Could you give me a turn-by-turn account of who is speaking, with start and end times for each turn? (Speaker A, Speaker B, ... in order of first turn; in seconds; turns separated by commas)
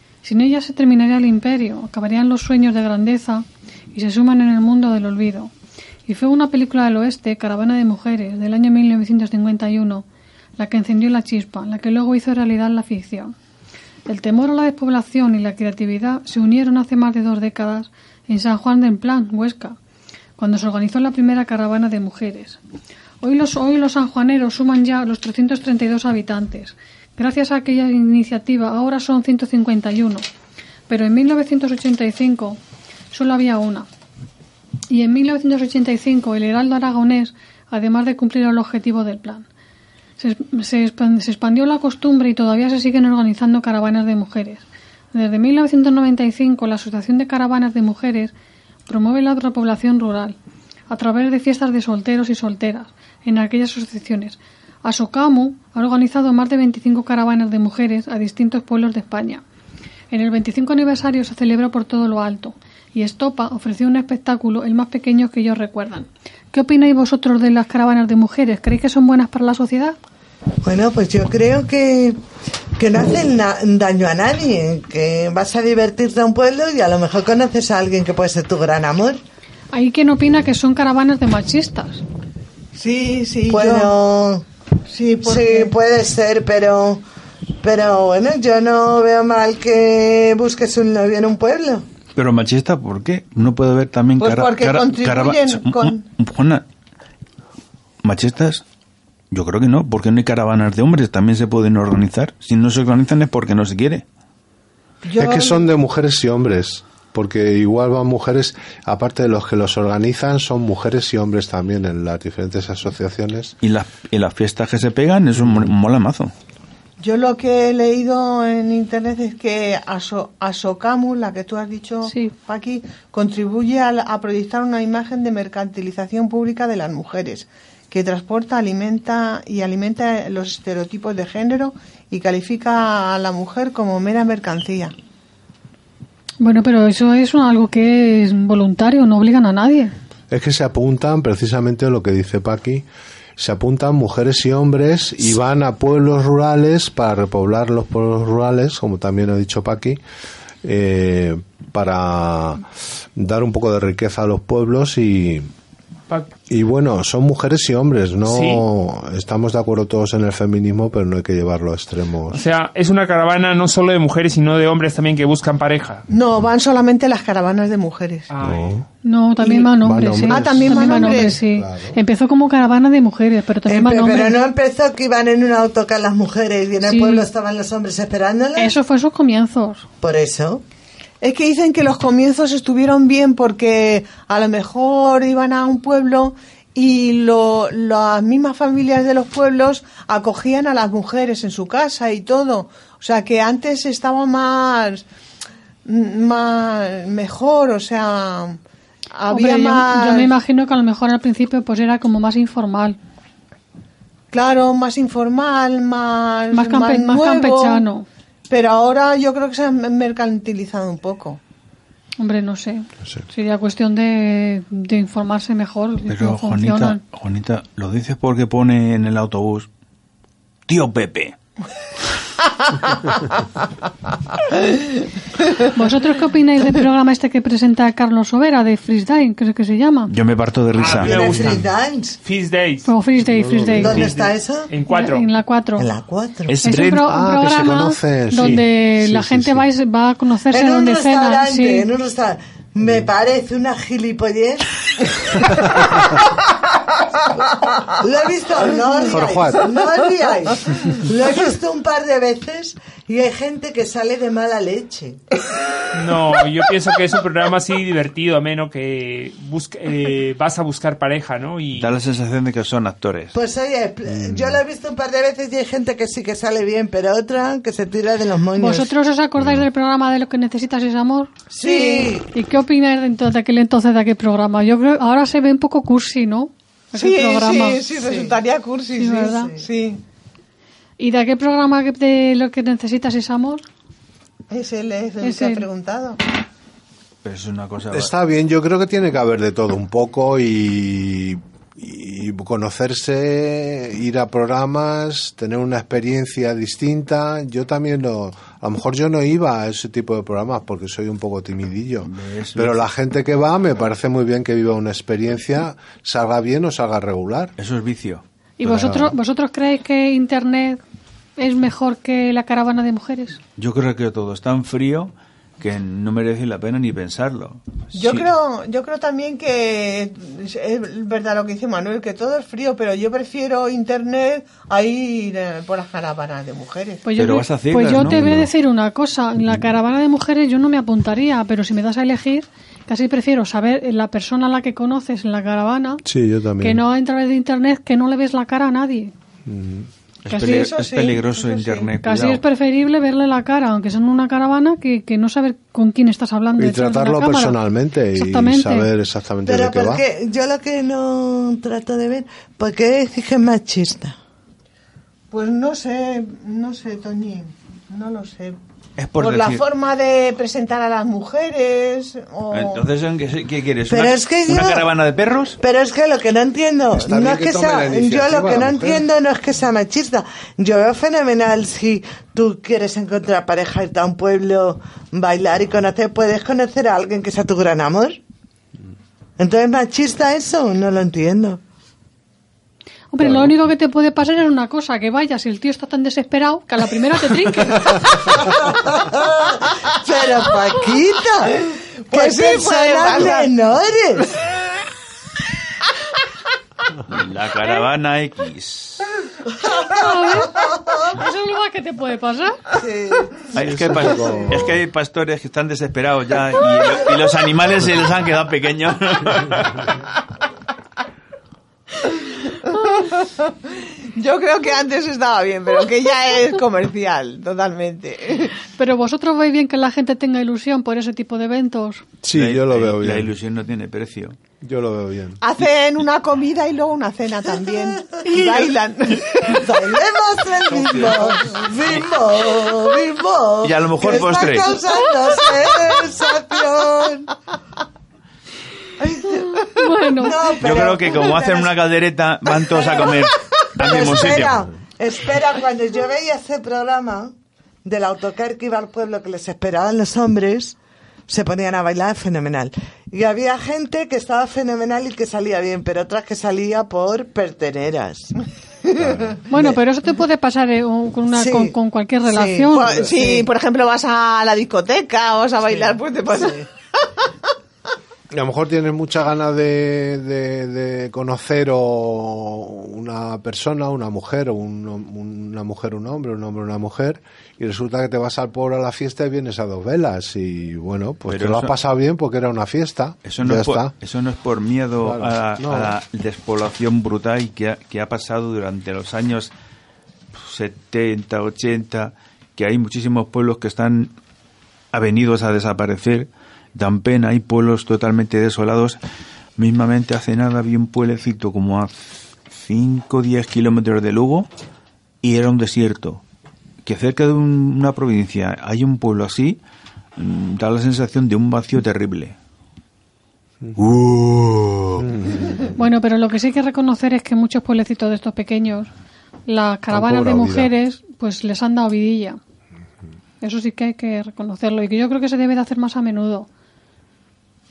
Speaker A: 0.2-5.5, Speaker A: 6.1-10.1, Speaker A: 10.6-13.3, Speaker A: 14.1-19.8, Speaker A: 20.4-22.6, Speaker A: 23.2-30.2, Speaker A: 30.9-32.6, Speaker A: 33.1-33.9, Speaker A: 34.9-39.5, Speaker A: 40.2-48.3, Speaker A: 48.9-50.4, Speaker A: 50.9-59.4, Speaker A: 60.1-70.0, Speaker B: 70.6-72.2, Speaker B: 72.8-79.2, Speaker A: 79.7-82.0, Speaker C: 82.8-83.9, Speaker B: 83.5-84.5, Speaker C: 84.9-85.7, Speaker B: 85.2-87.0, Speaker B: 87.6-91.8, Speaker D: 92.2-96.7, Speaker C: 94.2-96.0, Speaker D: 98.0-98.6, Speaker D: 99.3-104.0, Speaker C: 105.0-105.7, Speaker E: 105.2-113.5, Speaker D: 113.6-116.3, Speaker E: 115.4-115.7, Speaker C: 117.0-134.9, Speaker A: 122.1-122.3, Speaker A: 136.4-139.9, Speaker E: 140.3-142.9, Speaker E: 143.4-150.0, Speaker E: 150.6-152.7, Speaker E: 153.2-155.5, Speaker E: 156.5-162.4, Speaker F: 158.2-158.6, Speaker F: 162.3-166.1, Speaker C: 166.1-168.3, Speaker F: 168.3-168.8, Speaker E: 168.4-168.8, Speaker A: 169.0-174.4, Speaker E: 169.7-172.0, Speaker C: 170.2-171.4, Speaker B: 173.7-178.8, Speaker A: 176.8-177.2, Speaker A: 178.6-179.9, Speaker B: 180.0-180.6, Speaker C: 181.2-195.1, Speaker C: 195.8-198.6, Speaker C: 199.1-200.3, Speaker A: 199.3-203.0, Speaker C: 204.3-207.8, Speaker A: 206.5-208.1, Speaker C: 208.5-211.4, Speaker A: 212.2-217.0, Speaker D: 216.1-219.7, Speaker D: 220.7-221.4, Speaker A: 225.7-230.1, Speaker D: 230.1-231.6, Speaker F: 230.8-231.7, Speaker B: 230.9-232.2, Speaker F: 232.2-232.9, Speaker A: 232.9-234.1, Speaker E: 233.3-234.0, Speaker F: 233.7-235.3, Speaker B: 233.8-234.7, Speaker A: 234.8-235.9, Speaker B: 235.8-236.5, Speaker D: 236.5-237.5, Speaker A: 236.6-241.9, Speaker E: 237.0-239.7, Speaker B: 240.5-244.7, Speaker B: 248.0-255.2, Speaker E: 249.1-249.7, Speaker F: 255.9-261.9, Speaker D: 261.7-263.4, Speaker B: 263.3-268.9, Speaker E: 264.1-264.6, Speaker A: 268.6-277.8, Speaker B: 271.5-272.3, Speaker C: 271.7-272.1, Speaker C: 276.9-280.0, Speaker B: 278.0-278.4, Speaker A: 278.9-279.6, Speaker A: 281.0-283.7, Speaker C: 284.5-286.2, Speaker A: 285.2-285.7, Speaker D: 287.2-288.1, Speaker E: 287.9-307.6, Speaker D: 302.0-302.9, Speaker D: 307.6-308.2, Speaker A: 308.6-310.8, Speaker E: 308.6-309.1, Speaker A: 311.4-313.4, Speaker D: 313.6-318.3, Speaker C: 317.9-327.0, Speaker A: 327.0-336.1, Speaker D: 327.2-328.2, Speaker E: 327.9-328.5, Speaker E: 336.1-336.8, Speaker A: 336.6-339.1, Speaker E: 339.5-339.9, Speaker D: 340.2-342.4, Speaker A: 340.3-341.2, Speaker C: 340.4-341.9, Speaker A: 341.8-348.9, Speaker E: 346.6-350.0, Speaker B: 349.4-354.2, Speaker C: 355.3-358.6, Speaker D: 359.0-359.6, Speaker C: 359.2-362.8, Speaker D: 362.5-365.6, Speaker B: 363.9-364.9, Speaker B: 365.6-378.2, Speaker E: 366.9-369.1, Speaker B: 379.4-381.6, Speaker A: 383.1-388.4, Speaker E: 383.2-383.5, Speaker B: 388.5-394.3, Speaker C: 392.1-393.5, Speaker D: 397.1-399.1, Speaker A: 399.8-400.5, Speaker A: 401.1-402.6, Speaker B: 402.7-404.4, Speaker E: 403.5-404.8, Speaker D: 403.5-409.9, Speaker C: 412.1-413.5, Speaker C: 414.2-418.6, Speaker A: 418.8-422.1, Speaker E: 422.2-423.3, Speaker D: 422.3-424.4, Speaker E: 424.6-425.4, Speaker C: 425.4-429.7, Speaker B: 429.4-437.3, Speaker D: 430.8-431.3, Speaker D: 433.6-434.7, Speaker A: 439.4-440.8, Speaker B: 440.2-441.8, Speaker D: 440.6-444.6, Speaker B: 443.8-447.3, Speaker B: 447.9-450.8, Speaker B: 451.3-458.3, Speaker E: 459.0-459.4, Speaker A: 459.5-463.0, Speaker B: 461.3-463.5, Speaker C: 462.8-466.7, Speaker B: 465.6-466.7, Speaker E: 468.3-483.9, Speaker D: 481.3-481.7, Speaker D: 483.2-489.5, Speaker E: 485.0-485.9, Speaker D: 490.4-494.1, Speaker D: 494.9-499.0, Speaker D: 499.6-502.0, Speaker D: 502.5-504.5, Speaker D: 505.2-506.2, Speaker D: 506.8-509.6, Speaker D: 510.2-512.4, Speaker E: 513.6-515.6, Speaker A: 515.8-518.9, Speaker A: 519.5-522.4, Speaker E: 519.9-520.7, Speaker A: 523.4-526.5